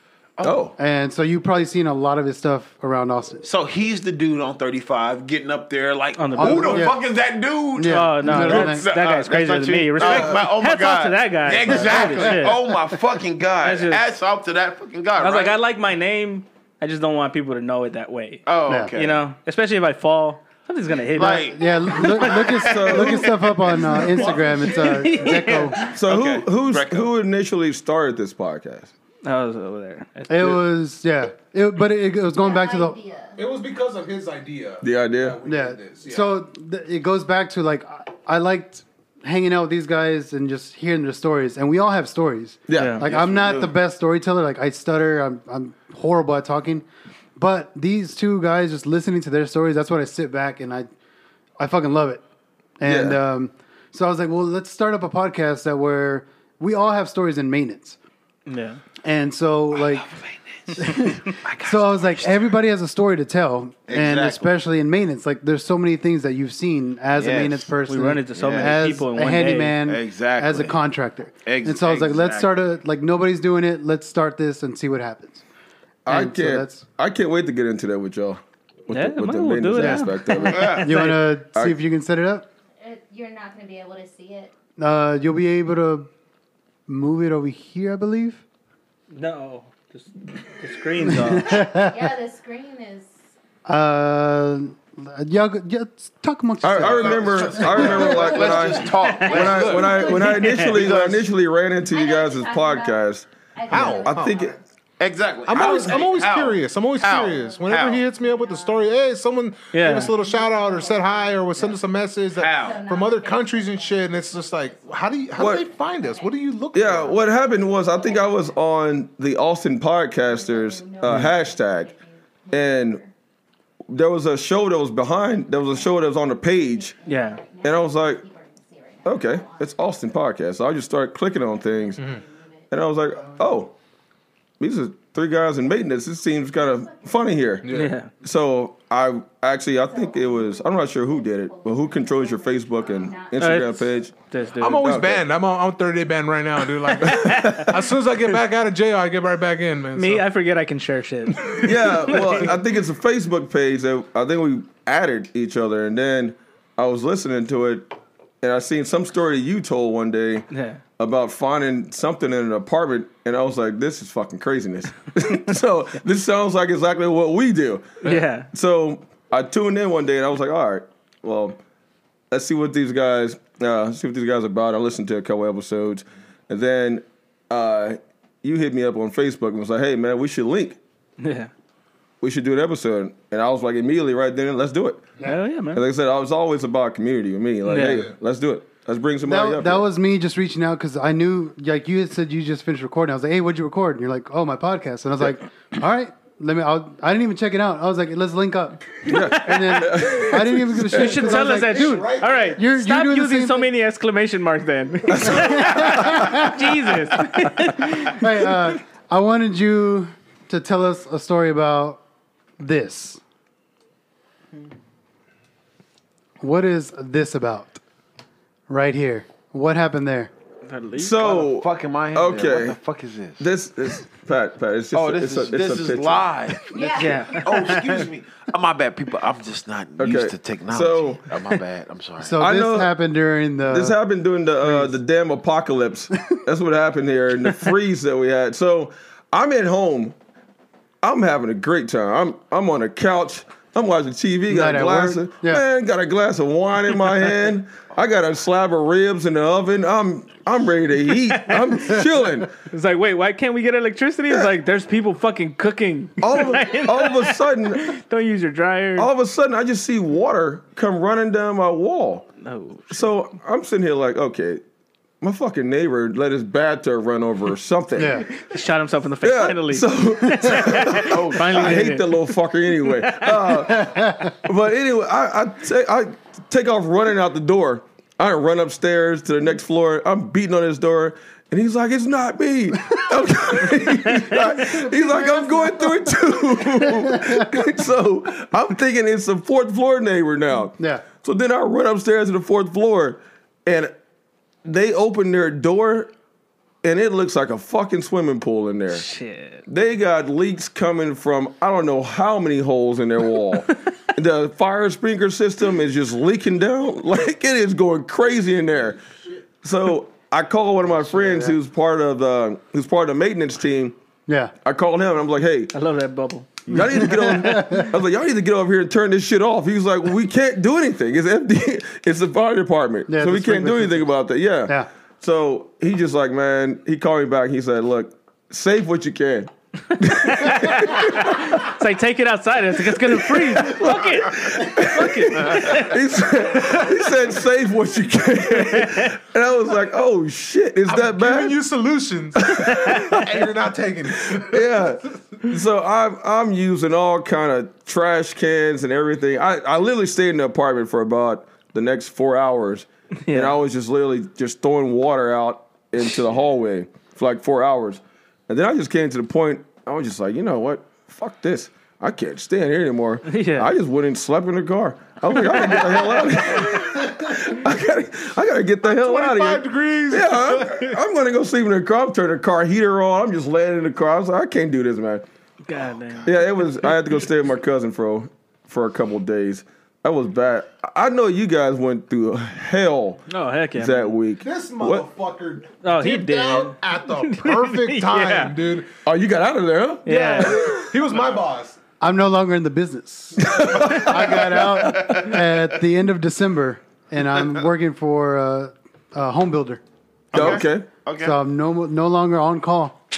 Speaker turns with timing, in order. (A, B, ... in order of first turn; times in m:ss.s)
0:00.4-0:00.6 A
0:00.4-0:00.7 B
0:00.8-0:03.4 C
0:03.4-0:15.6 A
0:06.2-0:06.9 D
0:06.4-0:07.0 C
0:07.8-0:08.9 C
0:07.8-0:12.6 D
0:10.0-0:10.4 B
0:11.6-0:12.8 C
0:13.6-0:14.0 D
0:15.2-0:21.5 D
0:18.4-0:19.2 A
0:18.6-0:18.9 C
0:21.1-0:24.3 A
0:21.4-0:25.8 C
0:22.5-0:23.6 B
0:24.0-0:25.2 E
0:24.6-0:25.9 D
0:25.9-0:28.9 B
0:26.0-0:27.1 A
0:29.2-0:30.6 D
0:30.3-0:33.0 C
0:32.3-0:33.5 F
0:33.4-0:36.3 E
0:34.8-0:35.4 B
0:35.4-0:46.8 C
0:42.7-0:43.0 B
0:42.7-0:43.0 D
0:43.0-0:43.7 A
0:47.4-0:50.9 C
0:51.6-0:52.2 C
0:52.8-0:58.0 C
0:52.8-0:53.2 B
0:58.5-0:58.8 D
0:59.0-1:00.0 C
0:59.7-1:02.6 A
1:00.8-1:15.4 C
1:03.9-1:04.5 A
1:07.1-1:07.7 A
1:07.9-1:09.8 D
1:08.3-1:08.8 A
1:09.8-1:10.8 A
1:11.4-1:12.5 A
1:16.0-1:20.9 B
1:16.1-1:16.8 C
1:18.9-1:21.2 D
1:19.7-1:22.5 C
1:20.4-1:20.9 A
1:22.8-1:24.5 F
1:24.8-1:26.1 C
1:26.9-1:28.4 C
1:29.1-1:31.6 D
1:31.0-1:32.0 C
1:31.4-1:33.1 F
1:33.6-1:38.5 C
1:36.6-1:44.6 B
1:36.8-1:41.3 A
1:38.2-1:40.7 F
1:39.3-1:39.9 E
1:40.1-1:40.8 D
1:41.8-1:44.6 F
1:43.7-1:44.4 E
1:45.0-1:48.0 A
1:45.4-1:57.2 E
1:47.2-1:49.2 F
1:49.7-1:50.1 D
1:50.0-1:58.8 F
1:52.3-1:52.8 A
1:55.4-1:55.6 B
1:56.7-2:01.9 B
2:00.1-2:03.1 F
2:01.0-2:01.3 D
2:02.5-2:03.0 B
2:03.9-2:06.9 B
2:05.4-2:10.2 F
2:07.0-2:07.4 D
2:07.6-2:08.2 B
2:09.0-2:12.1 B
2:11.3-2:13.5 F
2:12.7-2:13.7 B
2:14.6-2:24.1 B
2:16.4-2:17.6 F
2:17.6-2:17.9 E
2:17.7-2:18.1 D
2:19.8-2:24.1 F
2:23.4-2:24.9 D
2:24.5-2:30.2 E
2:24.8-2:25.2 B
2:27.0-2:27.7 D
2:27.0-2:27.8 B
2:29.9-2:32.5 D
2:31.4-2:32.4 E
2:31.6-2:40.5 B
2:40.5-2:40.8 D
2:41.0-2:51.6 B
2:48.0-2:48.5 D
2:52.3-3:00.8 B
3:01.2-3:01.5 D
3:02.2-3:05.2 B
3:05.2-3:05.8 D
3:05.7-3:09.8 B
3:07.6-3:08.1 D
3:09.2-3:23.7 C
3:19.0-3:21.0 B
3:20.9-3:22.6 E
3:20.9-3:28.2 D
3:25.1-3:26.5 B
3:25.2-3:26.6 C
3:28.0-3:32.0 C
3:32.6-3:33.2 C
3:36.4-3:37.8 C
3:38.7-3:40.3 C
3:40.6-3:41.4 D
3:41.0-3:42.8 B
3:41.2-3:43.4 A
3:43.4-3:46.3 B
3:44.9-3:52.4 A
3:46.7-3:47.8 F
3:47.0-3:47.9 D
3:50.0-3:51.3 B
3:52.2-3:54.0 C
3:52.4-3:52.9 B
3:53.7-4:00.1 B
3:54.6-3:54.9 C
4:01.0-4:12.5 B
4:04.5-4:05.6 C
4:11.3-4:11.6 D
4:12.7-4:19.1 D
4:16.2-4:17.9 B
4:19.0-4:22.3 B
4:22.4-4:22.9 D
4:22.9-4:24.6 B
4:25.2-4:28.2 B
4:28.0-4:28.3 C
4:28.4-4:32.1 D
4:29.2-4:53.9 B
4:31.0-4:31.8 A
4:33.0-4:33.3 D
4:33.6-4:34.3 C
4:44.4-4:46.1 C
4:46.6-4:47.5 C
4:54.6-4:56.1 B
4:56.8-4:59.0 B
4:58.9-4:59.6 D
4:59.7-5:09.0 B
5:09.6-5:13.9 B
5:10.9-5:11.5 C
5:14.3-5:14.5 C
5:14.6-5:15.7 B
5:15.7-5:17.4 D
5:16.7-5:31.6 B
5:16.7-5:17.9 C
5:23.1-5:24.1 C
5:30.2-5:35.9 D
5:33.1-5:41.6 B
5:38.6-5:39.1 D
5:40.9-5:44.7 E
5:42.4-5:43.2 B
5:42.6-5:43.2 D
5:44.3-6:15.2 B
5:53.3-5:53.6 D
6:03.3-6:03.7 D
6:08.8-6:11.0 E
6:15.7-6:16.3 D
6:16.2-6:25.0 B
6:23.3-6:24.1 D
6:24.4-6:28.9 E
6:25.8-6:28.6 D
6:29.0-6:30.0 B
6:30.0-6:30.7 D
6:30.0-6:31.8 E
6:32.0-6:39.8 C
6:33.4-6:34.5 B
6:34.2-6:35.6 A
6:40.3-6:41.4 A
6:40.3-6:40.8 B
6:40.4-6:40.6 C
6:41.2-6:43.0 C